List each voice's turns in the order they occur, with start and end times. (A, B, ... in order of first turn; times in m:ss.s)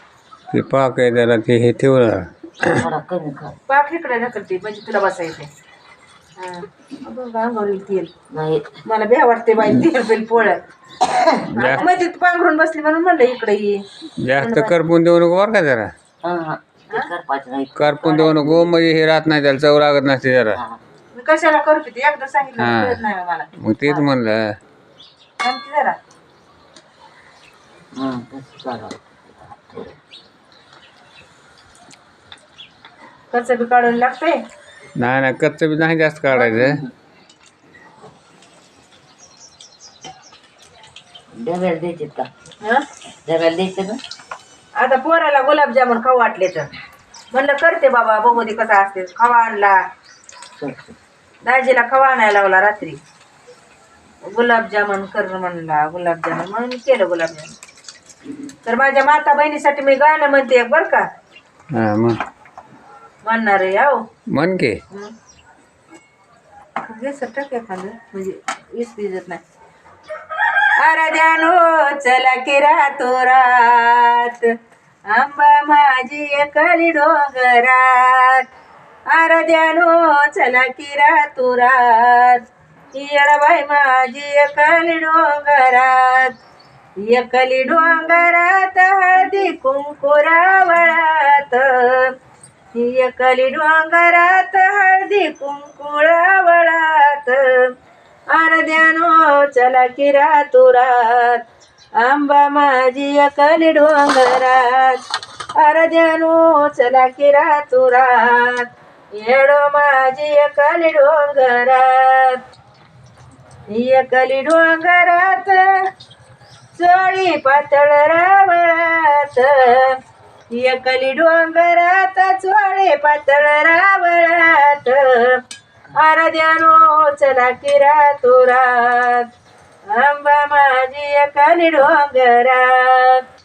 0:00.5-0:02.9 A
0:02.7-0:03.6 B
0:03.7-0:05.5 C
0:06.4-0:08.1 C
0:08.3-0:08.7 B
0:08.8-0:10.6 C
0:11.5-0:11.9 A
0:11.6-0:13.8 C
0:14.2-0:15.9 A
0:14.4-0:14.7 C
0:16.2-0:18.7 B
0:17.8-0:20.6 A
0:21.1-0:24.0 C
0:22.6-0:23.0 A
0:23.6-0:24.6 A
0:25.4-0:26.0 C
0:27.9-0:29.5 B
0:33.3-0:34.4 C
0:35.0-0:36.8 A
0:41.3-0:42.3 B
0:43.2-0:44.0 B
0:44.8-0:46.7 C
0:47.3-0:49.8 C
0:50.6-0:51.0 B
0:51.4-0:53.0 C
0:54.2-0:57.5 C
0:58.6-1:01.1 C
1:01.7-1:02.2 A
1:03.2-1:04.0 C
1:04.3-1:04.8 A
1:06.8-1:09.4 C
1:10.8-1:14.5 C
1:15.1-1:18.4 C
1:19.1-1:26.3 C
1:27.0-1:32.1 C
1:32.7-1:37.7 C
1:38.3-1:41.4 C
1:42.0-1:45.0 C
1:45.6-1:52.4 C
1:53.7-1:55.8 C
1:56.7-2:00.0 C
2:00.5-2:05.4 C
2:05.9-2:09.3 C
2:09.9-2:13.2 C